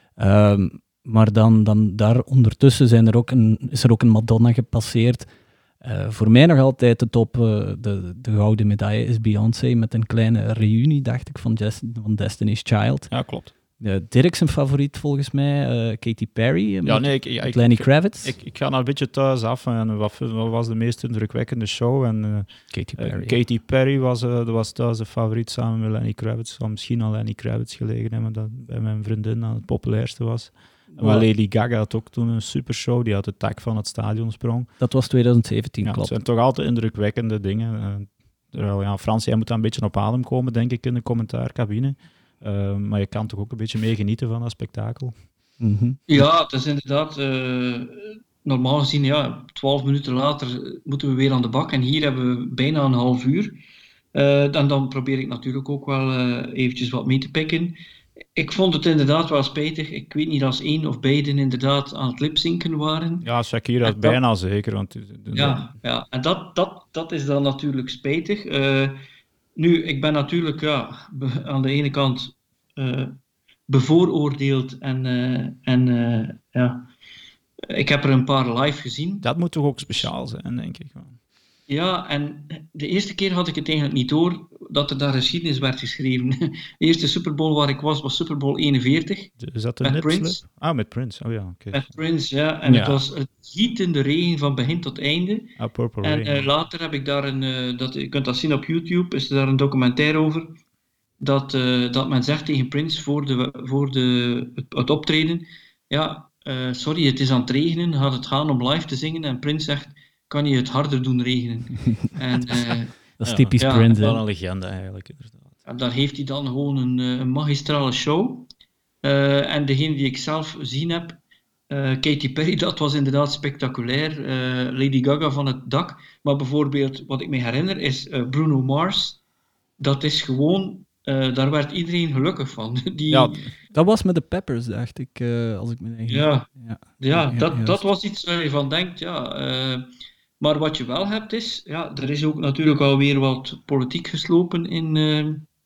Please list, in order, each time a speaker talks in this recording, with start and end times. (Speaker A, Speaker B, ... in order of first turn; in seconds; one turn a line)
Speaker A: 0.2-5.2
Speaker A: 5.8-13.1
Speaker B: 13.1-13.5
Speaker A: 13.8-18.3
Speaker B: 16.8-34.7
Speaker A: 22.7-23.4
Speaker A: 30.9-31.3
Speaker A: 34.8-36.1
Speaker B: 35.8-45.1
Speaker A: 45.6-46.0
Speaker C: 46.1-53.6
Speaker C: 54.1-57.8
Speaker C: 58.3-63.3
Speaker B: 63.2-65.7
Speaker C: 63.8-64.2
Speaker C: 65.3-69.0
Speaker C: 69.5-73.1
Speaker C: 73.7-76.9
Speaker C: 77.7-79.2
Speaker B: 79.2-81.1
Speaker C: 81.7-90.4
Speaker B: 89.4-91.9
Speaker C: 91.7-95.5
Speaker A: 92.7-93.0
Speaker B: 95.6-96.5
Speaker C: 96.0-100.5
Speaker C: 101.2-113.0
Speaker A: 113.2-114.2
Speaker B: 113.2-115.5
Speaker C: 113.6-113.9
Speaker C: 115.7-118.5
Speaker C: 119.0-121.2
Speaker C: 121.7-129.2
Speaker C: 129.8-133.4
Speaker B: 133.1-133.4
Speaker A: 133.7-137.8
Speaker C: 136.1-139.9
Speaker C: 140.4-145.4